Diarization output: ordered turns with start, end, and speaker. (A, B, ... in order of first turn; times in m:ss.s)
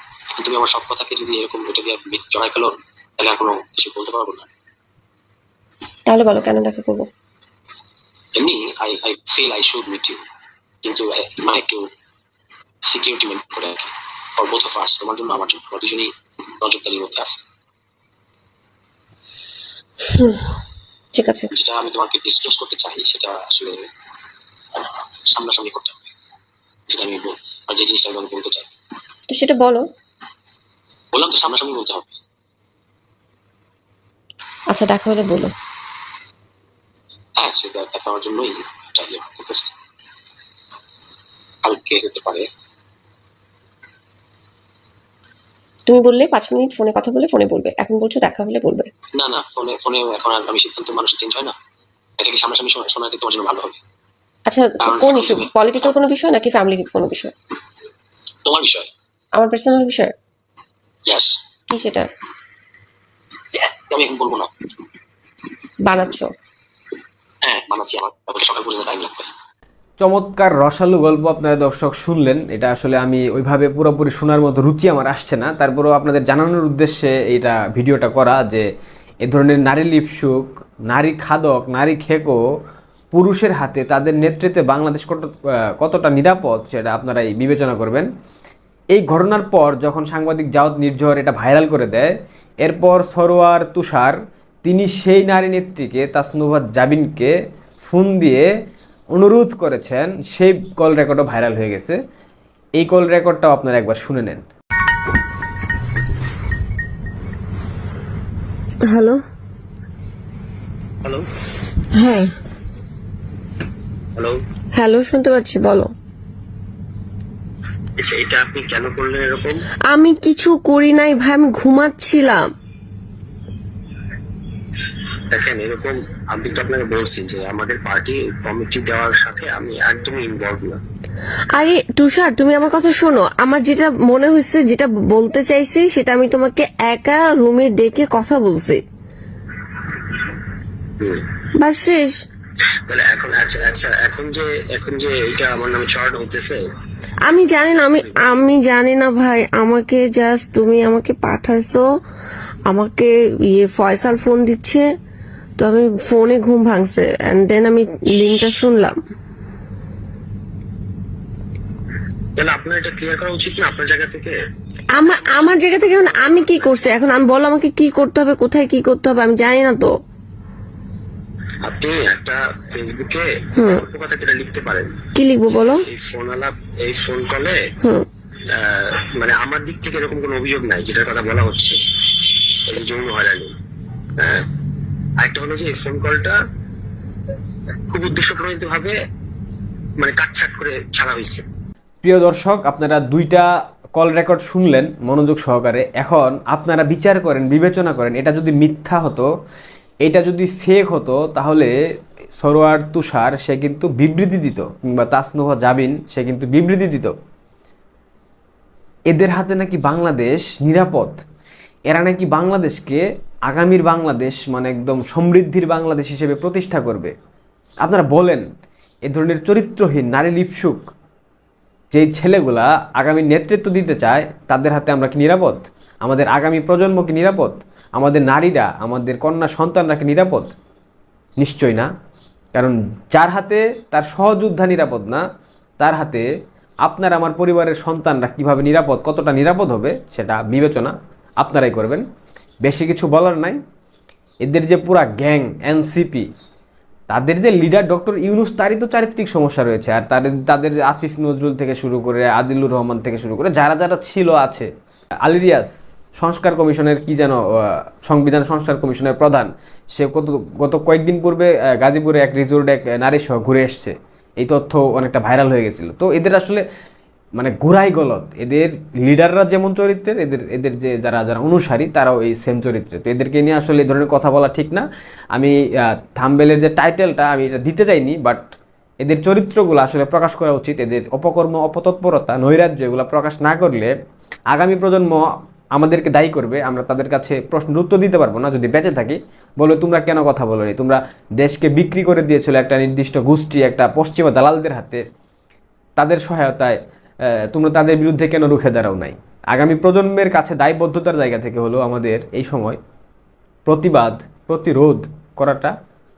0:00.4-0:04.5 A
0:06.1-0:07.1 B
0:08.4-0:10.2 A
0:10.8-0:11.9 A
0:12.9-0:17.4 A
0:20.1-0:20.5 B
0:21.1-0:21.5 B
0:21.5-0:23.9 A
0:24.8-0:26.0 A
0:26.9-0:28.7 A
0:29.3-0:29.9 B
0:31.1-0:32.1 A
0:34.7-0:35.5 B
0:37.4-0:39.7 A
0:41.6-0:42.5 A
0:45.9-0:48.9 B
0:49.2-0:51.6 A
0:52.2-0:53.8 A
0:54.5-0:57.3 B
0:54.8-0:55.9 A
0:58.5-0:58.9 A
0:59.4-1:00.1 B
1:01.1-1:01.4 A
1:01.7-1:02.1 B
1:03.6-1:04.5 A
1:05.9-1:06.3 B
1:07.4-1:09.3 A
1:10.0-1:18.6 C
1:19.2-1:22.4 C
1:23.1-1:28.1 C
1:28.9-1:38.5 C
1:39.1-1:42.0 C
1:42.8-1:44.4 C
1:48.8-1:49.2 D
1:51.9-1:52.3 D
1:54.8-1:55.9 D
1:58.0-1:59.6 E
1:59.9-2:02.5 D
2:05.3-2:10.8 E
2:11.6-2:18.8 D
2:21.6-2:22.1 D
2:22.9-2:26.6 E
2:27.3-2:31.8 D
2:27.7-2:28.1 E
2:32.7-2:34.9 D
2:35.6-2:39.0 D
2:42.4-2:44.3 E
2:44.9-2:49.9 D
2:51.6-2:55.0 E
2:53.6-2:53.8 D
2:55.2-2:55.8 D
2:55.9-2:57.7 E
2:58.5-3:01.8 E
3:02.7-3:03.5 E
3:04.2-3:04.5 E
3:05.2-3:06.4 E
3:07.9-3:09.0 E
3:10.0-3:11.5 E
3:12.0-3:19.3 C
3:20.0-3:21.7 C
3:22.4-3:27.1 C
3:29.1-3:31.2 C
3:31.9-3:37.1 C
3:37.8-3:38.4 C
3:39.0-3:40.8 C
3:41.9-3:50.5 C
3:51.4-3:51.9 C
3:52.6-3:55.2 C
3:55.8-3:56.3 C
3:56.8-4:02.0 C
4:02.6-4:03.6 C
4:04.4-4:06.3 C
4:07.1-4:14.7 C
4:15.2-4:26.6 C
4:27.4-4:43.9 C
4:44.5-4:55.0 C
4:56.0-4:56.8 C
4:57.5-5:02.8 C
5:03.7-5:05.7 C